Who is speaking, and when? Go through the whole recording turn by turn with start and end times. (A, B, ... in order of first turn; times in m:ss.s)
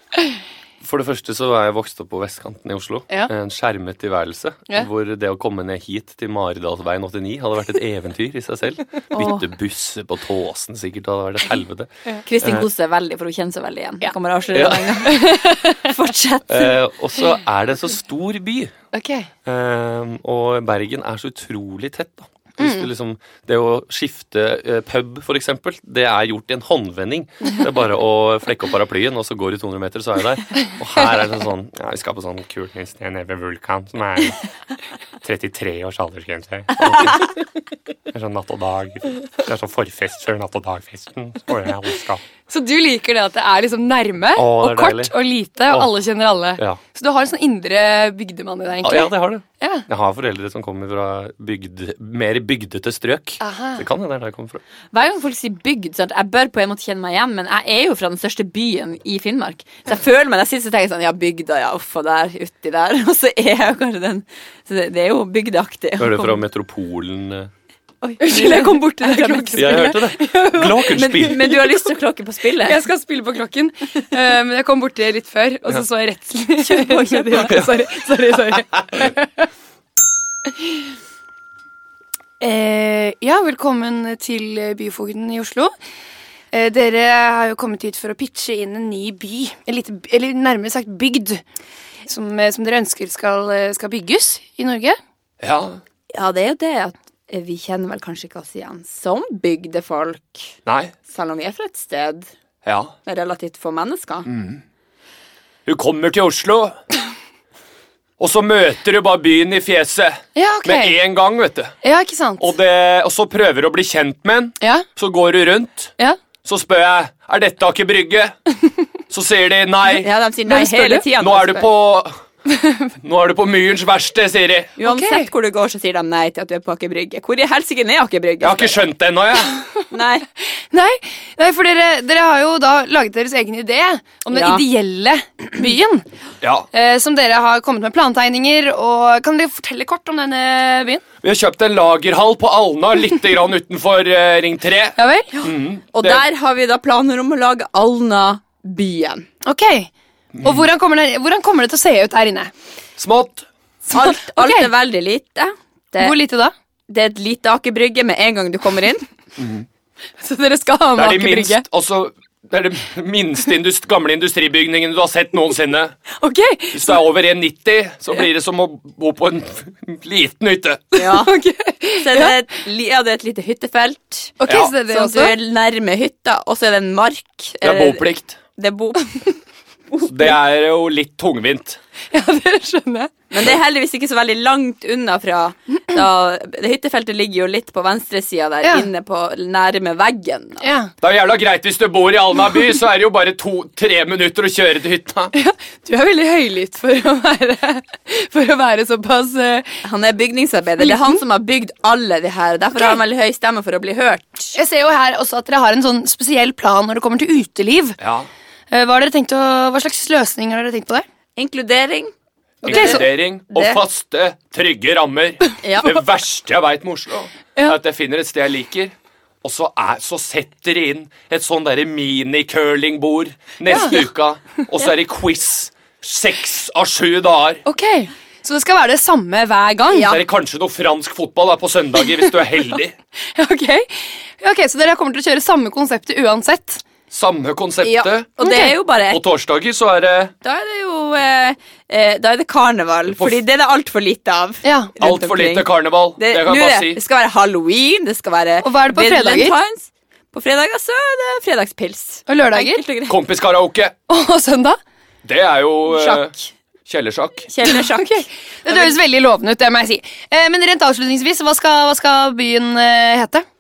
0:00.8-0:11.9 A
0:09.1-0:09.5 B
0:12.2-0:16.7 B
0:12.4-0:12.7 A
0:14.5-0:15.2 A
0:15.0-0:15.9 C
0:16.5-0:18.7 A
0:18.9-0:19.3 C
0:19.4-0:34.4 A
0:35.2-0:37.4 A
0:38.1-0:42.2 A
0:42.5-0:49.9 C
0:44.3-0:45.1 A
0:48.8-0:54.6 A
0:53.4-0:53.8 C
0:54.9-1:06.4 B
1:06.0-1:07.5 A
1:08.0-1:10.0 B
1:08.2-1:11.9 C
1:09.6-1:11.6 A
1:10.8-1:12.8 B
1:12.6-1:19.4 C
1:16.6-1:17.6 B
1:17.3-1:17.8 A
1:18.7-1:19.1 A
1:22.4-1:25.7 C
1:26.5-1:31.4 C
1:32.1-1:35.0 C
1:35.4-1:35.8 A
1:36.1-1:40.5 B
1:40.6-1:40.9 A
1:41.1-1:42.3 B
1:42.6-1:42.9 A
1:43.0-1:44.3 B
1:44.3-1:44.6 A
1:45.6-1:46.8 A
1:48.2-1:51.7 A
1:50.4-1:51.0 C
1:51.8-1:52.5 C
1:52.4-1:55.9 A
1:54.6-1:54.8 C
1:56.4-1:58.3 A
1:59.1-2:00.1 A
1:59.9-2:01.7 B
2:00.5-2:01.1 C
2:01.2-2:02.1 A
2:02.5-2:02.9 C
2:03.0-2:04.8 A
2:04.8-2:08.8 B
2:04.8-2:05.3 C
2:08.4-2:09.6 A
2:09.9-2:10.2 B
2:10.5-2:16.0 C
2:14.3-2:14.6 B
2:16.4-2:16.7 A
2:16.7-2:21.0 C
2:21.2-2:26.2 A
2:25.0-2:25.3 C
2:25.3-2:29.2 B
2:29.4-2:29.9 C
2:30.3-2:30.6 A
2:30.4-2:32.5 C
2:33.0-2:33.4 A
2:33.9-2:34.7 C
2:33.9-2:36.2 B
2:36.0-2:36.5 C
2:36.9-2:39.1 B
2:39.4-2:39.6 A
2:40.2-2:41.6 C
2:41.0-2:45.9 A
2:46.2-2:47.0 C
2:46.7-2:51.0 A
2:50.9-2:51.4 B
2:51.0-2:52.4 C
2:52.0-2:59.4 B
2:54.4-2:55.4 C
2:54.4-2:54.7 A
2:57.6-2:58.4 A
2:59.9-3:00.3 B
3:00.0-3:01.8 A
3:02.1-3:03.1 C
3:03.3-3:10.7 B
3:10.6-3:10.9 C
3:11.0-3:15.3 A
3:15.3-3:19.8 C
3:19.8-3:24.6 B
3:20.8-3:21.2 C
3:24.5-3:28.0 C
3:28.0-3:28.3 A
3:28.7-3:31.0 C
3:31.4-3:32.1 B
3:32.6-3:47.6 A
3:32.6-3:33.0 C
3:32.6-3:33.8 B
3:35.6-3:36.0 B
3:43.7-3:44.0 C
3:47.6-3:50.1 C
3:49.9-3:50.2 B
3:50.0-3:53.0 A
3:53.3-3:56.8 C
3:57.1-3:58.3 A
3:57.8-3:59.2 B
3:58.4-3:58.7 C
3:59.1-4:00.3 A
4:00.4-4:13.2 B
4:03.1-4:03.4 A
4:04.6-4:04.9 C
4:05.0-4:07.0 A
4:08.6-4:09.6 C
4:12.3-4:12.8 C
4:13.1-4:13.9 A
4:14.1-4:14.8 C
4:15.2-4:16.3 A
4:15.9-4:16.5 B
4:16.8-4:17.5 A
4:17.5-4:18.9 B
4:17.6-4:23.4 C